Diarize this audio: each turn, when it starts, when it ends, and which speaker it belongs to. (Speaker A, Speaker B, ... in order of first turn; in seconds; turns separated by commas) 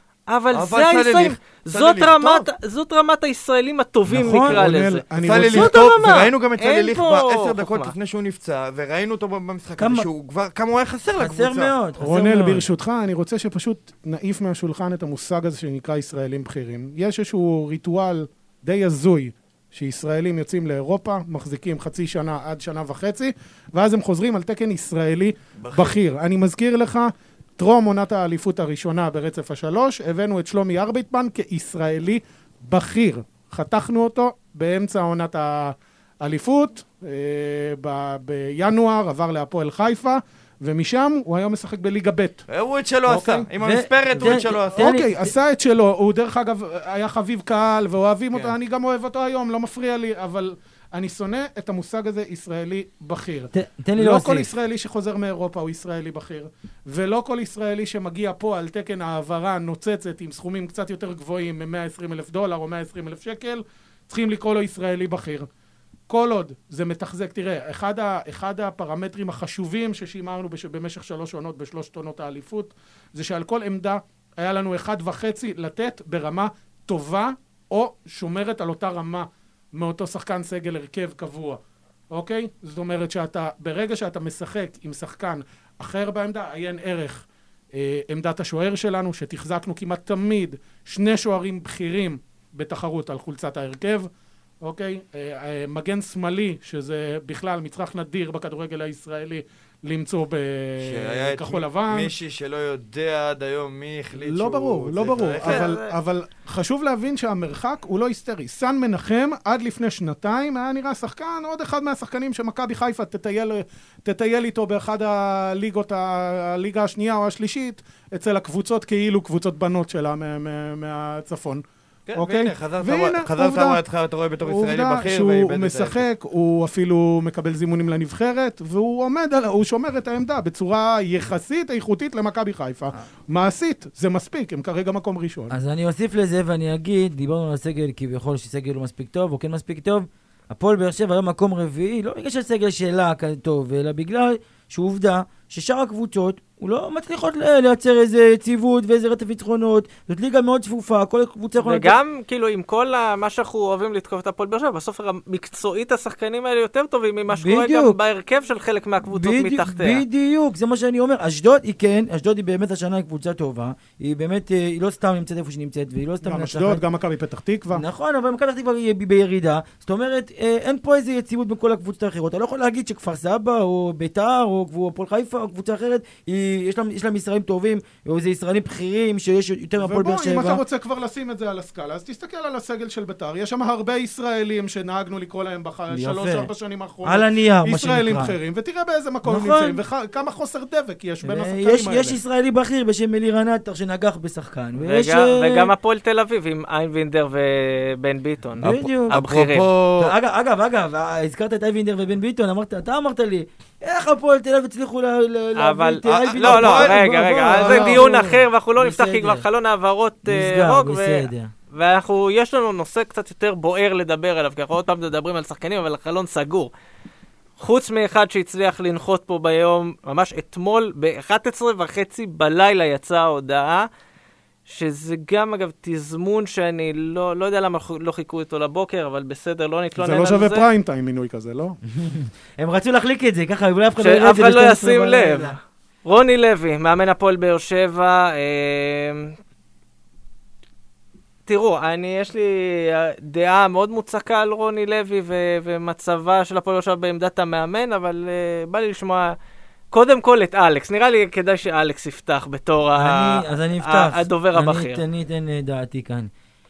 Speaker A: 0.3-7.9, Speaker B: 0.5-2.5, Speaker C: 4.1-4.6, Speaker D: 4.3-5.8, Speaker B: 5.2-11.7, Speaker C: 9.8-10.1, Speaker C: 11.2-12.7, Speaker D: 12.0-42.4, Speaker B: 25.6-26.0, Speaker B: 42.5-44.9, Speaker D: 43.1-43.5, Speaker C: 43.6-45.3, Speaker D: 44.2-65.5, Speaker C: 53.5-54.5, Speaker D: 66.1-81.6, Speaker D: 82.1-94.1, Speaker D: 94.6-102.1, Speaker B: 100.8-105.7, Speaker D: 104.2-121.6, Speaker A: 105.4-105.9, Speaker B: 122.1-126.0, Speaker D: 122.1-123.8, Speaker D: 124.4-135.6, Speaker C: 135.5-151.9, Speaker A: 151.6-160.0, Speaker C: 157.3-158.0, Speaker C: 159.1-166.8, Speaker D: 166.2-167.8, Speaker C: 167.7-180.6, Speaker D: 179.8-192.2, Speaker C: 185.9-186.5, Speaker C: 187.0-188.3, Speaker C: 189.2-189.8, Speaker C: 191.2-195.7, Speaker A: 194.8-199.7, Speaker C: 198.6-199.2, Speaker B: 199.1-200.1, Speaker C: 200.0-208.2, Speaker A: 205.6-216.7, Speaker B: 206.1-207.1, Speaker D: 207.6-208.4, Speaker C: 208.8-209.4, Speaker C: 210.3-211.5, Speaker A: 217.6-223.9, Speaker A: 224.7-230.7, Speaker D: 229.9-231.8, Speaker C: 231.9-235.6, Speaker A: 234.0-239.4, Speaker A: 241.4-249.3, Speaker A: 249.9-255.0, Speaker C: 252.9-256.3